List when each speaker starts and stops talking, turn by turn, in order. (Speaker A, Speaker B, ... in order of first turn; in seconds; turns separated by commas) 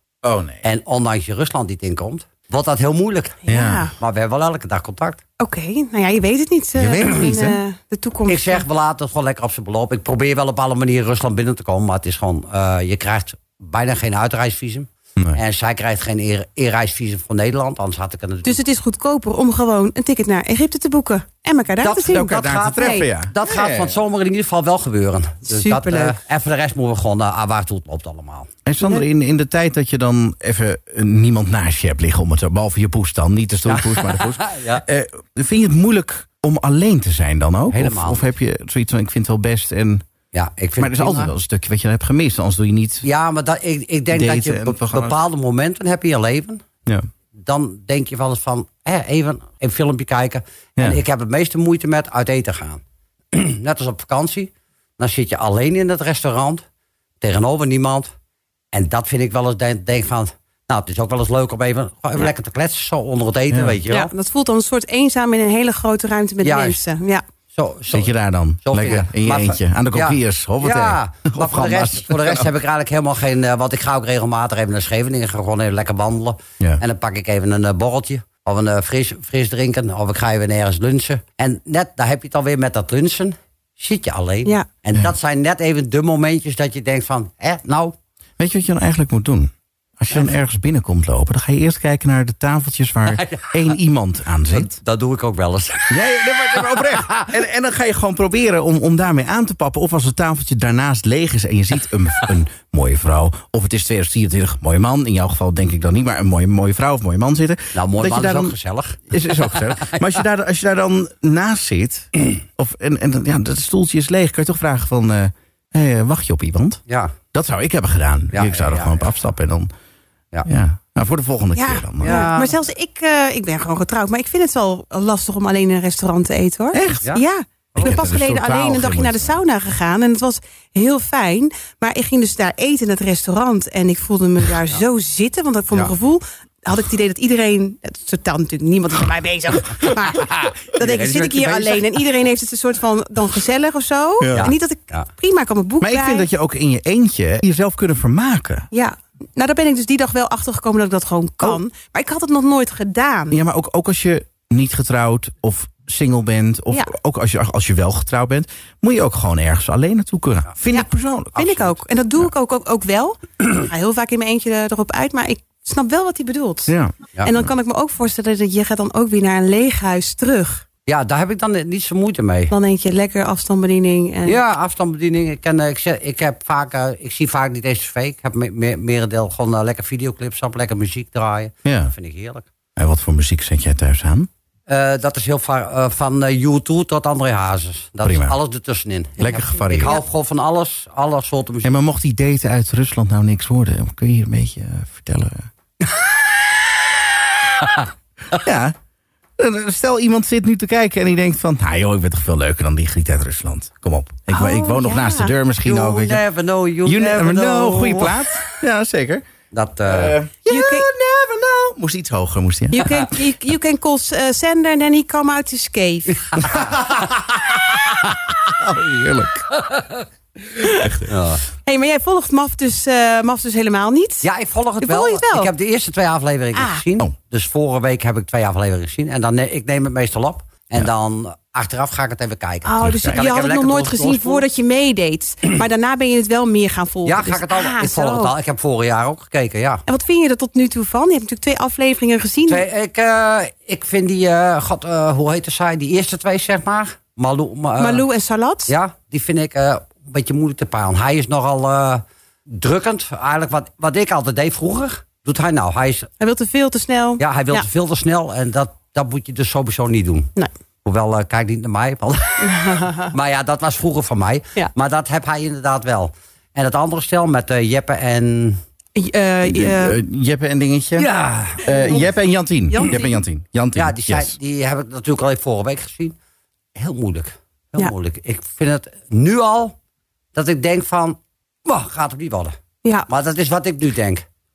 Speaker A: 0.2-0.6, Speaker B: 0.6-3.5, Speaker C: 3.5-3.9, Speaker A: 3.5-3.9, Speaker B: 4.0-5.2, Speaker C: 5.4-8.6, Speaker A: 6.8-7.6, Speaker B: 8.3-18.6, Speaker C: 18.4-23.1, Speaker B: 21.8-28.5, Speaker A: 22.0-24.0, Speaker C: 25.5-26.2, Speaker A: 28.6-40.0, Speaker B: 33.7-34.8, Speaker B: 37.7-38.2, Speaker B: 40.3-41.3, Speaker A: 40.8-43.0, Speaker B: 43.0-46.6, Speaker A: 44.1-45.2, Speaker B: 47.4-52.8, Speaker B: 53.3-56.6, Speaker B: 57.2-58.1, Speaker B: 58.7-64.1, Speaker A: 63.5-63.8, Speaker C: 63.9-67.2, Speaker B: 66.4-66.8, Speaker B: 67.5-68.1, Speaker A: 67.9-72.5, Speaker B: 68.6-87.9, Speaker A: 88.4-94.7, Speaker B: 93.1-93.6, Speaker B: 94.5-96.1, Speaker A: 95.9-108.5, Speaker B: 96.7-97.3, Speaker B: 107.7-110.0, Speaker A: 109.1-116.8, Speaker B: 116.9-117.1, Speaker A: 117.3-119.7, Speaker B: 118.3-119.1, Speaker A: 120.5-122.3, Speaker C: 121.5-146.3, Speaker B: 122.0-122.5, Speaker A: 126.7-127.1, Speaker B: 127.7-128.0, Speaker A: 127.8-129.4, Speaker B: 140.1-142.0, Speaker A: 144.2-144.5, Speaker B: 144.3-145.1, Speaker A: 145.8-148.7, Speaker C: 148.7-153.4, Speaker A: 153.3-161.8, Speaker C: 160.7-170.6, Speaker A: 166.7-166.9, Speaker B: 170.9-172.5, Speaker C: 172.5-174.4, Speaker B: 174.2-182.5, Speaker A: 181.6-181.9, Speaker A: 182.8-184.3, Speaker B: 184.7-191.7, Speaker A: 188.0-188.3, Speaker A: 189.2-190.0, Speaker A: 191.6-195.5, Speaker A: 198.3-198.7, Speaker A: 199.4-206.2, Speaker C: 204.3-205.3, Speaker B: 205.6-208.4, Speaker A: 206.8-209.2, Speaker B: 209.5-210.2, Speaker A: 209.9-213.1, Speaker C: 210.4-210.9, Speaker C: 212.7-216.4, Speaker B: 216.3-217.0, Speaker A: 218.6-219.5, Speaker A: 220.6-221.1, Speaker B: 221.1-221.4, Speaker C: 221.6-224.2, Speaker B: 224.2-234.4, Speaker C: 224.8-225.5, Speaker C: 226.5-226.8, Speaker C: 232.6-238.3, Speaker A: 232.8-233.2, Speaker B: 237.1-239.8, Speaker C: 239.9-242.6, Speaker B: 242.5-248.0, Speaker C: 247.8-248.7, Speaker B: 248.7-256.1, Speaker C: 256.2-257.6, Speaker B: 257.2-260.3, Speaker B: 260.8-268.6, Speaker C: 262.4-263.1, Speaker C: 268.9-270.0, Speaker A: 269.4-271.1, Speaker B: 271.0-271.9, Speaker A: 271.6-274.3, Speaker C: 271.8-272.0, Speaker C: 272.7-273.1, Speaker B: 273.7-276.2, Speaker B: 276.7-279.7, Speaker B: 280.3-282.6, Speaker B: 283.1-284.2